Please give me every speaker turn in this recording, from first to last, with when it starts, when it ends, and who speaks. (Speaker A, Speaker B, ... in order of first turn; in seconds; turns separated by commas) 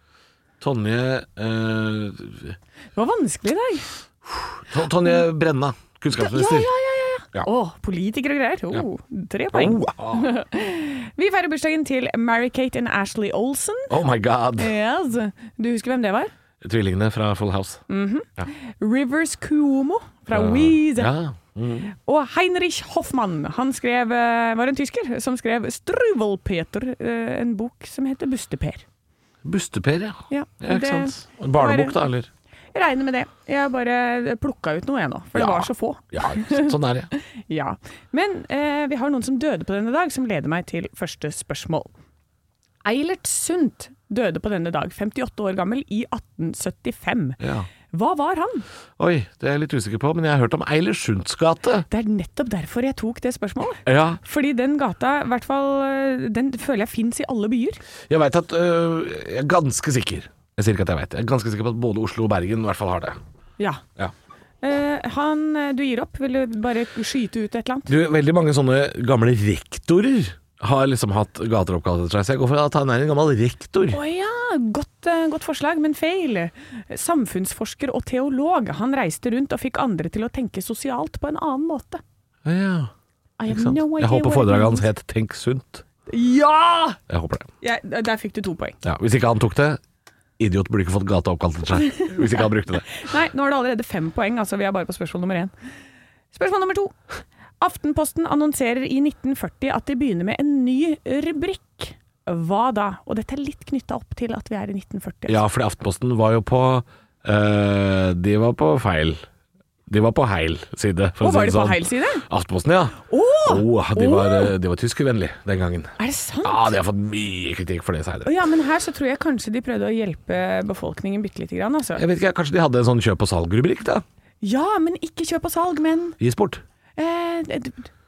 Speaker A: 0.6-2.6, Speaker B: 3.0-3.9, Speaker A: 4.3-6.7, Speaker B: 6.2-14.0, Speaker A: 9.5-10.3, Speaker A: 13.9-14.7, Speaker B: 14.6-16.3, Speaker A: 16.6-17.9, Speaker B: 17.9-21.1, Speaker A: 20.3-21.9, Speaker B: 21.9-28.9, Speaker A: 29.4-32.3, Speaker B: 30.3-32.0, Speaker B: 32.7-41.9, Speaker A: 35.4-37.1, Speaker B: 42.8-47.4, Speaker A: 47.4-47.7, Speaker B: 47.9-48.6, Speaker A: 49.0-51.9, Speaker B: 51.9-57.8, Speaker A: 53.9-54.2, Speaker A: 58.1-63.2, Speaker B: 64.6-67.9, Speaker A: 67.9-74.0, Speaker B: 73.9-82.0, Speaker A: 82.5-82.9, Speaker B: 83.4-84.9, Speaker A: 83.5-85.8, Speaker B: 86.1-87.0, Speaker A: 87.1-87.5, Speaker B: 87.6-88.8, Speaker A: 88.8-89.8, Speaker A: 90.4-93.0, Speaker B: 91.8-95.5, Speaker B: 96.3-97.0, Speaker B: 97.6-105.4, Speaker A: 105.3-109.2, Speaker A: 109.9-118.3, Speaker B: 111.2-112.3, Speaker B: 113.1-114.5, Speaker B: 116.0-116.8, Speaker B: 118.2-122.0, Speaker A: 122.0-124.0, Speaker B: 124.4-126.2, Speaker A: 126.2-126.6, Speaker B: 127.0-127.9